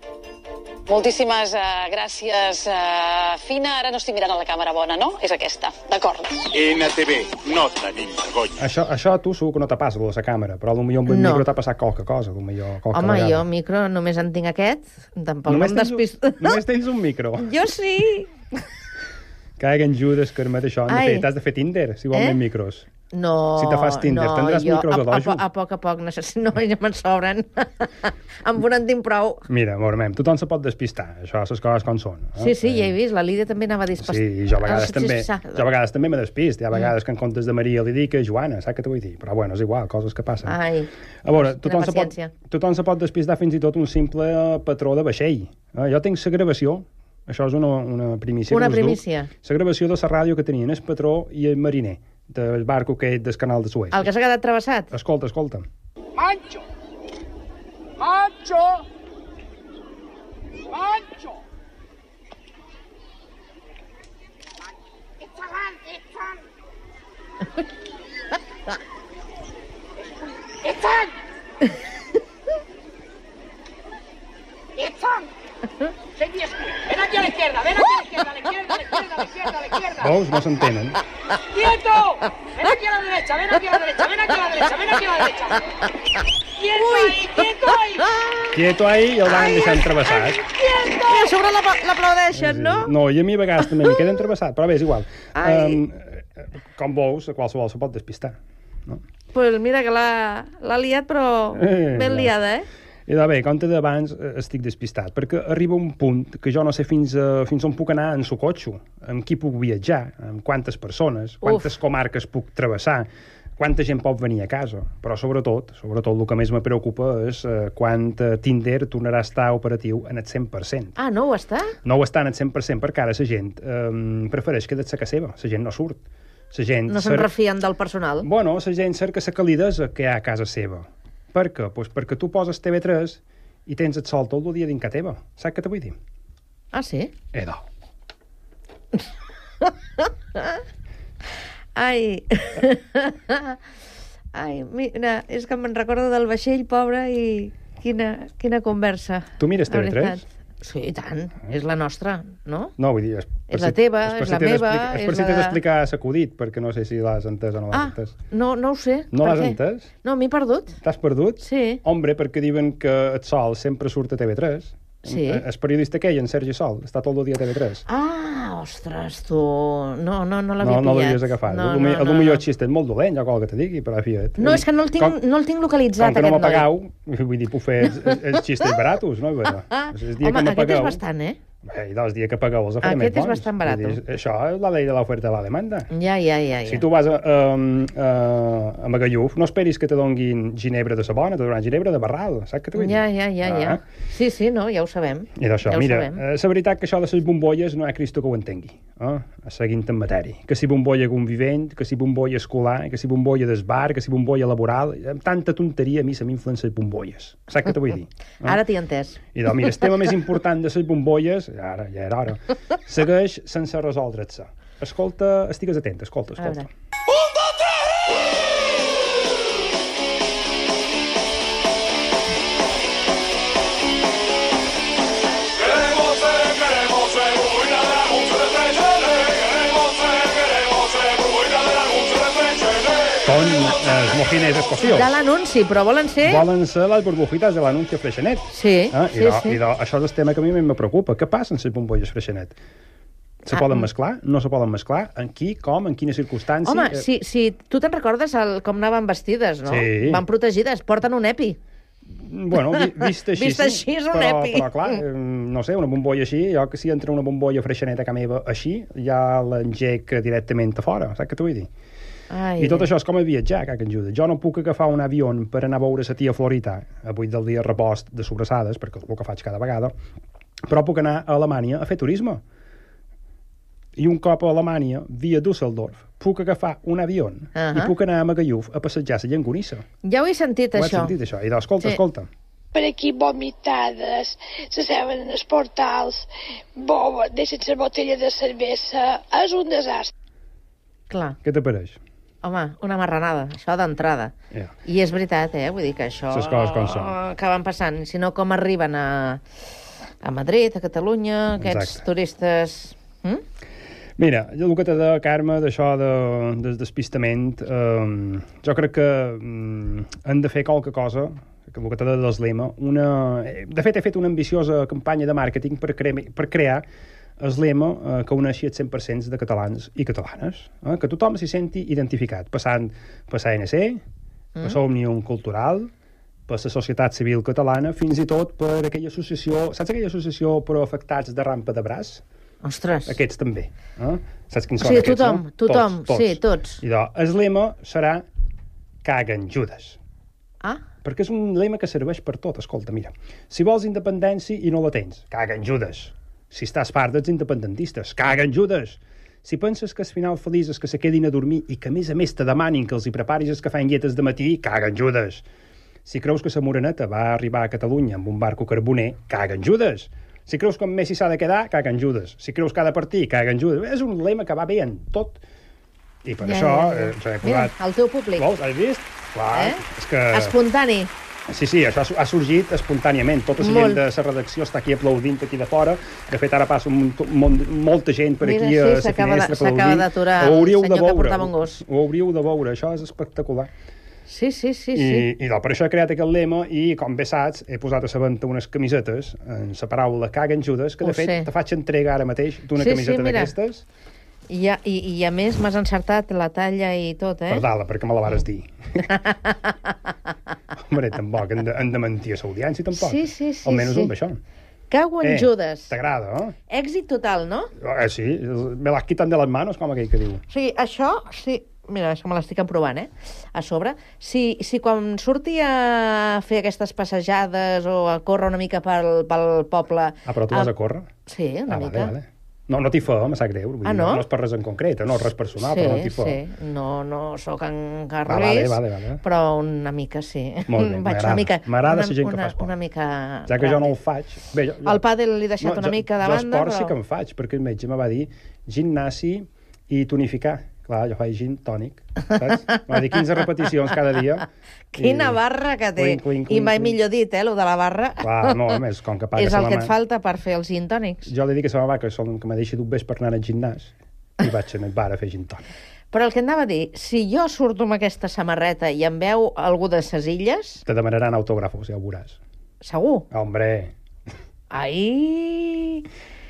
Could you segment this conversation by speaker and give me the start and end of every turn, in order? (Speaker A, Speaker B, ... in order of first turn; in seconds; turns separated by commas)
Speaker A: 0.8-6.5, Speaker B: 6.5-8.5, Speaker C: 8.6-13.4, Speaker D: 11.1-11.4, Speaker D: 12.9-16.6, Speaker C: 15.5-17.5, Speaker D: 17.4-18.3, Speaker C: 19.6-22.9, Speaker D: 20.9-21.3, Speaker D: 22.1-22.4, Speaker D: 23.1-29.4, Speaker C: 23.6-25.4, Speaker C: 29.5-32.9, Speaker D: 32.4-35.6, Speaker C: 34.0-40.6, Speaker D: 40.4-42.3, Speaker C: 41.2-54.1, Speaker D: 48.5-49.3, Speaker D: 53.9-54.9, Speaker C: 54.9-55.6, Speaker E: 56.2-56.6, Speaker E: 58.0-58.8, Speaker E: 60.8-61.2, Speaker E: 76.2-79.2, Speaker A: 76.6-77.9, Speaker A: 78.5-78.8, Speaker C: 79.8-81.0, Speaker D: 81.5-82.6, Speaker E: 82.6-85.0, Speaker A: 82.8-83.3, Speaker D: 83.6-85.5, Speaker D: 86.6-88.4, Speaker E: 87.4-87.8, Speaker C: 88.5-90.4, Speaker D: 89.2-92.9, Speaker C: 92.3-99.0, Speaker D: 95.3-95.8, Speaker D: 99.3-102.7, Speaker C: 101.5-102.3, Speaker C: 103.1-121.0, Speaker D: 111.4-111.7, Speaker D: 121.0-121.7, Speaker C: 121.8-127.3, Speaker D: 126.9-128.3, Speaker C: 128.2-135.9, Speaker D: 136.7-137.1, Speaker C: 137.3-137.6, Speaker D: 139.6-140.6, Speaker D: 141.7-143.6, Speaker D: 144.3-152.7, Speaker C: 149.4-150.2, Speaker C: 152.8-158.2, Speaker D: 153.5-155.6, Speaker D: 157.7-160.8, Speaker C: 159.1-159.9, Speaker C: 160.8-167.8, Speaker D: 161.4-161.8, Speaker D: 165.1-165.4, Speaker D: 167.9-172.4, Speaker C: 170.6-175.2, Speaker D: 174.4-176.7, Speaker C: 176.0-181.0, Speaker D: 178.0-178.7, Speaker D: 179.7-181.4, Speaker C: 181.6-185.9, Speaker D: 182.8-184.0, Speaker D: 185.9-186.8, Speaker C: 186.6-193.8, Speaker D: 192.7-196.2, Speaker C: 195.3-208.6, Speaker D: 208.4-209.2, Speaker C: 209.3-216.7, Speaker D: 216.4-216.7, Speaker C: 233.2-235.1, Speaker D: 234.8-236.4, Speaker C: 236.2-242.6, Speaker D: 238.5-239.6, Speaker D: 243.5-243.9, Speaker C: 243.5-247.1, Speaker D: 246.6-251.6, Speaker C: 249.6-250.2, Speaker C: 252.1-261.7, Speaker D: 252.6-255.0, Speaker D: 262.3-262.9, Speaker C: 262.6-269.9, Speaker C: 270.7-272.4, Speaker C: 274.0-279.8, Speaker D: 277.5-277.9, Speaker D: 280.0-281.1, Speaker C: 280.7-282.3, Speaker F: 282.7-290.1, Speaker D: 291.1-291.4, Speaker C: 291.4-292.0, Speaker D: 292.4-294.3, Speaker D: 294.9-299.4, Speaker C: 296.3-297.1, Speaker D: 300.2-303.4, Speaker C: 301.6-302.0, Speaker C: 304.2-316.8, Speaker C: 317.4-324.0, Speaker C: 324.6-325.9, Speaker C: 326.5-332.2, Speaker D: 332.6-333.1, Speaker C: 333.1-338.2, Speaker D: 334.8-336.8, Speaker C: 339.0-340.0, Speaker C: 341.0-355.4, Speaker C: 356.0-365.4, Speaker C: 366.2-367.7, Speaker D: 366.4-368.4, Speaker C: 368.4-370.6, Speaker D: 369.5-371.1, Speaker C: 371.5-383.7, Speaker D: 373.6-374.0, Speaker D: 378.4-381.8, Speaker D: 384.3-385.3, Speaker C: 384.9-393.8, Speaker D: 391.0-391.5, Speaker D: 392.8-393.5, Speaker D: 394.5-397.6, Speaker C: 397.5-399.0, Speaker D: 399.2-399.5, Speaker C: 400.8-404.4, Speaker D: 402.9-404.1, Speaker D: 404.9-405.9, Speaker C: 405.2-406.5, Speaker D: 406.7-407.7, Speaker C: 407.8-410.4, Speaker D: 410.5-420.7, Speaker C: 420.2-421.1, Speaker D: 421.2-422.1, Speaker C: 421.7-426.4, Speaker D: 423.8-424.2, Speaker D: 425.6-434.0, Speaker C: 428.3-429.2, Speaker C: 430.7-432.7, Speaker C: 433.5-435.0, Speaker D: 434.8-436.9, Speaker C: 435.6-445.4, Speaker D: 444.9-448.8, Speaker C: 445.9-447.0, Speaker C: 448.2-449.9, Speaker D: 449.4-451.3, Speaker C: 451.3-455.7, Speaker D: 456.1-460.8, Speaker C: 460.9-462.4, Speaker D: 462.8-463.2, Speaker C: 463.3-463.9, Speaker D: 464.7-466.1